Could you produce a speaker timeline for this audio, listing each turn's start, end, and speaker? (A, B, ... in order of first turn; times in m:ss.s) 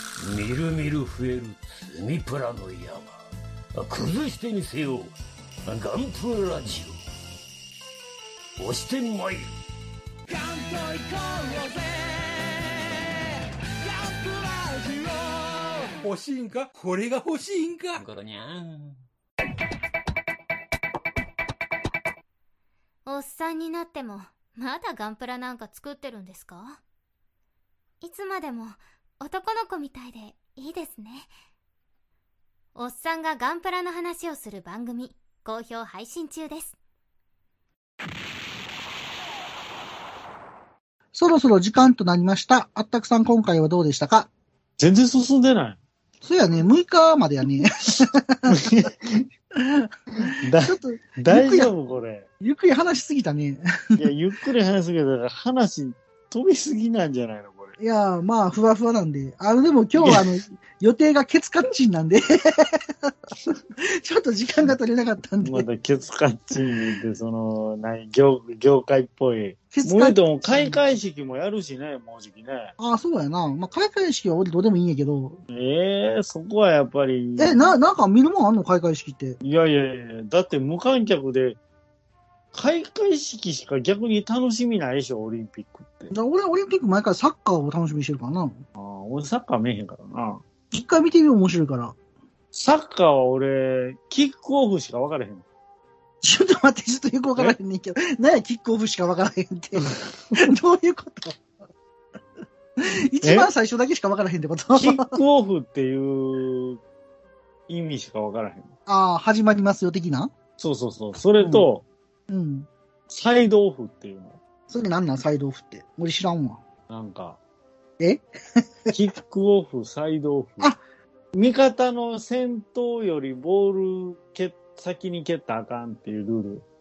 0:00.2-0:03.2 A
0:03.7-0:07.0 A
0:08.6-0:09.5 A
0:10.3-0:12.0 B
0:16.0-0:18.1 B
0:18.0-0:18.8 A
0:23.0-0:26.8 C
0:28.0-0:31.3 C
0:32.8-0:36.8 C
0:41.1-0:44.3 D
0:44.8-0:45.8 E
0:46.2-0:48.9 D
0:48.5-0:49.3 E
0:49.6-0:51.7 D
0:50.4-0:52.3 E
0:52.4-0:54.1 D
0:54.0-0:57.8 E
0:57.8-1:03.1 D
1:00.0-1:00.2 E
1:03.8-1:05.7 D
1:05.4-1:12.7 E
1:09.7-1:10.8 D
1:12.8-1:15.4 D
1:15.5-1:17.8 E
1:17.4-1:19.4 D
1:19.4-1:21.6 E
1:22.5-1:26.1 E
1:26.1-1:28.6 D
1:28.8-1:30.4 E
1:30.7-1:32.0 D
1:32.5-1:35.4 E
1:36.2-1:41.4 D
1:39.8-1:40.4 E
1:42.8-1:45.2 D
1:43.2-1:43.5 E
1:44.7-1:46.8 E
1:47.7-1:48.7 E
1:48.9-1:50.3 D
1:50.6-1:51.8 E
1:51.4-1:51.7 D
1:52.3-1:52.7 D
1:53.1-1:54.4 E
1:54.7-1:56.6 D
1:56.9-1:57.4 E
1:58.0-1:58.9 D
1:58.9-2:00.8 E
2:01.4-2:06.6 E